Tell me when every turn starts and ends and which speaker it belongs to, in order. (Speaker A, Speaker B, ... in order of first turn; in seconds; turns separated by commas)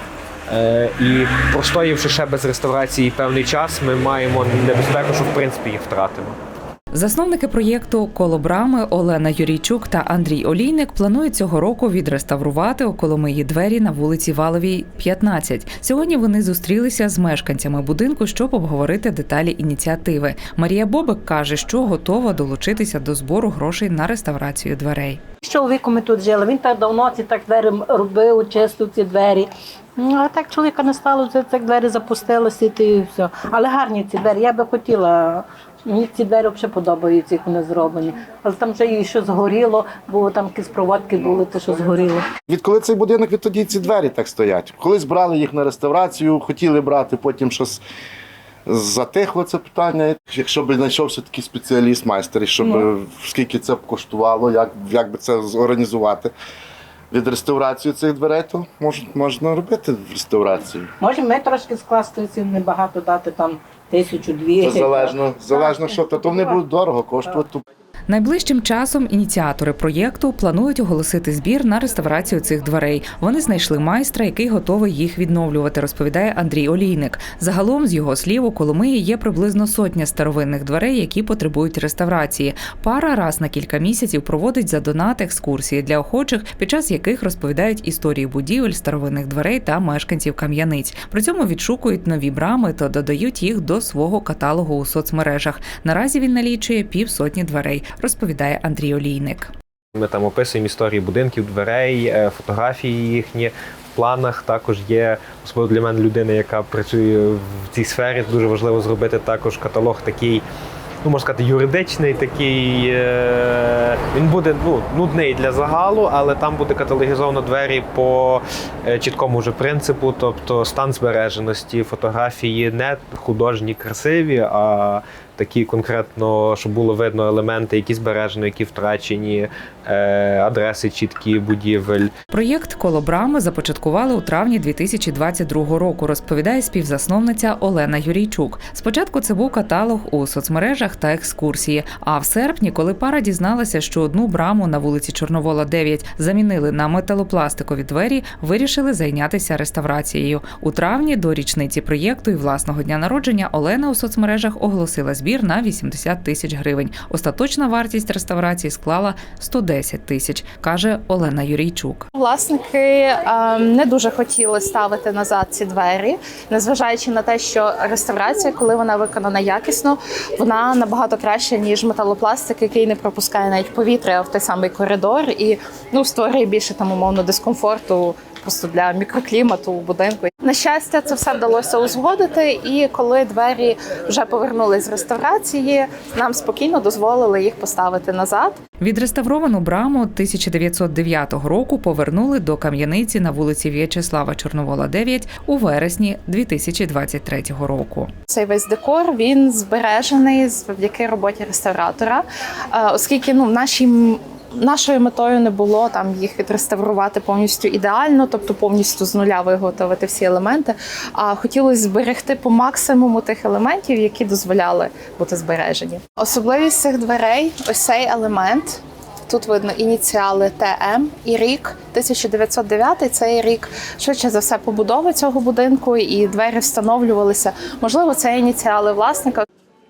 Speaker A: 0.5-6.4, Speaker B: 6.9-25.2, Speaker C: 25.4-42.2, Speaker D: 42.5-47.8, Speaker D: 48.7-56.3, Speaker D: 57.1-60.9, Speaker C: 61.0-66.6, Speaker D: 64.6-67.6, Speaker B: 68.1-99.5, Speaker A: 100.0-110.4, Speaker A: 111.0-132.1, Speaker B: 132.3-162.1, Speaker E: 162.2-188.6, Speaker B: 188.8-198.1, Speaker E: 198.3-229.4